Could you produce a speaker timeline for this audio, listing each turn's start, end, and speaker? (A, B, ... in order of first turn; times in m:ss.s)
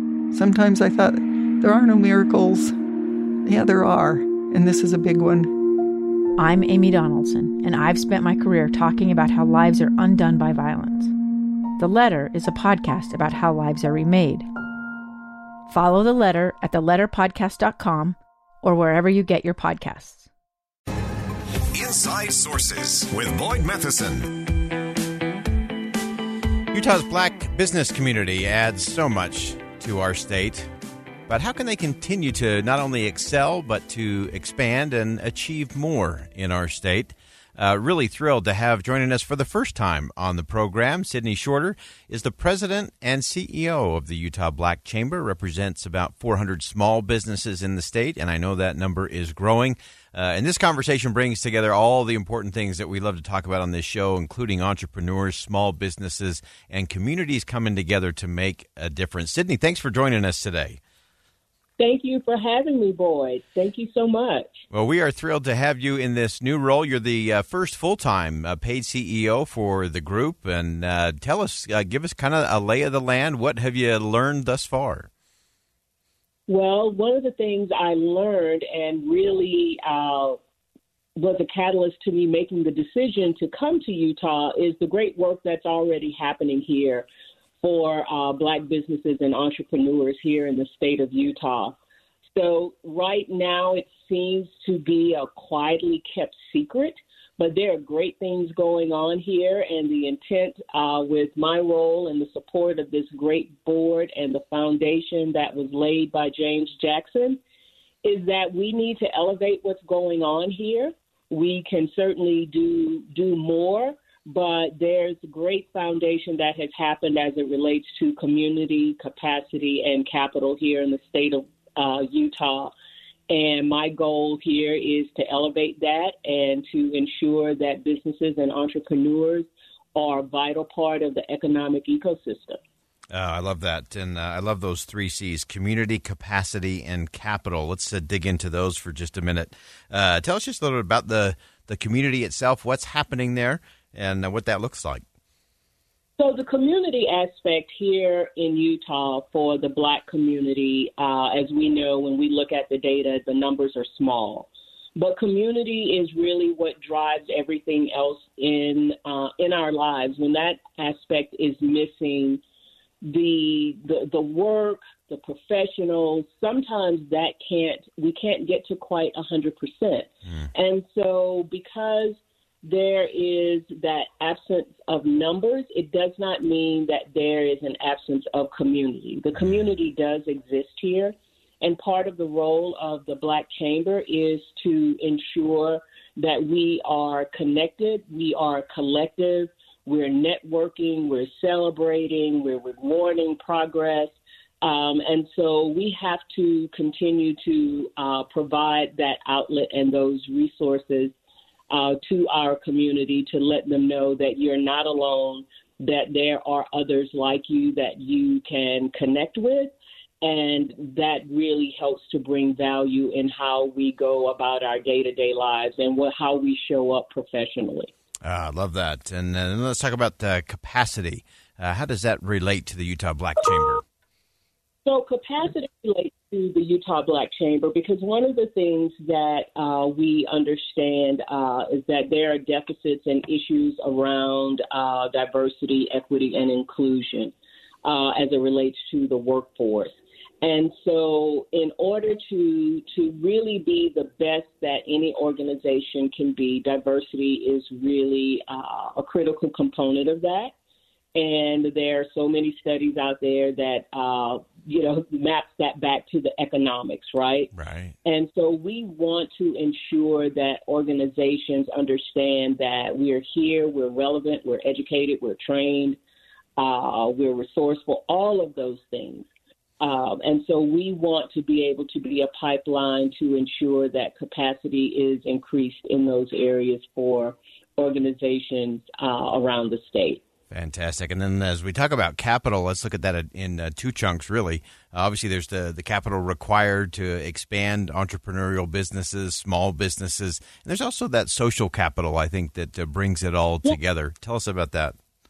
0:00.3-0:02.8 A
0:03.4-0:05.5 A
0:06.4-0:11.1 B
0:11.8-0:14.5 B
0:15.7-0:20.3 B
0:21.8-0:24.3 C
0:26.7-0:30.7 D
0:31.3-1:00.8 D
1:01.8-1:04.6 E
1:04.7-1:15.1 D
1:16.5-1:20.4 E
1:21.2-1:27.1 E
1:27.6-1:31.8 E
1:32.3-1:47.4 E
1:48.0-2:02.7 E
2:03.3-2:12.6 E
2:13.1-2:25.0 D
2:26.2-2:42.4 E
2:43.0-3:21.1 E
3:21.7-3:37.9 E
3:38.2-3:43.8 D
3:44.8-4:10.5 E
4:11.2-4:17.5 E
4:17.5-4:18.0 D
4:18.0-4:26.0 E
4:26.6-4:29.3 E
4:29.8-4:40.2 E
4:40.5-4:55.0 D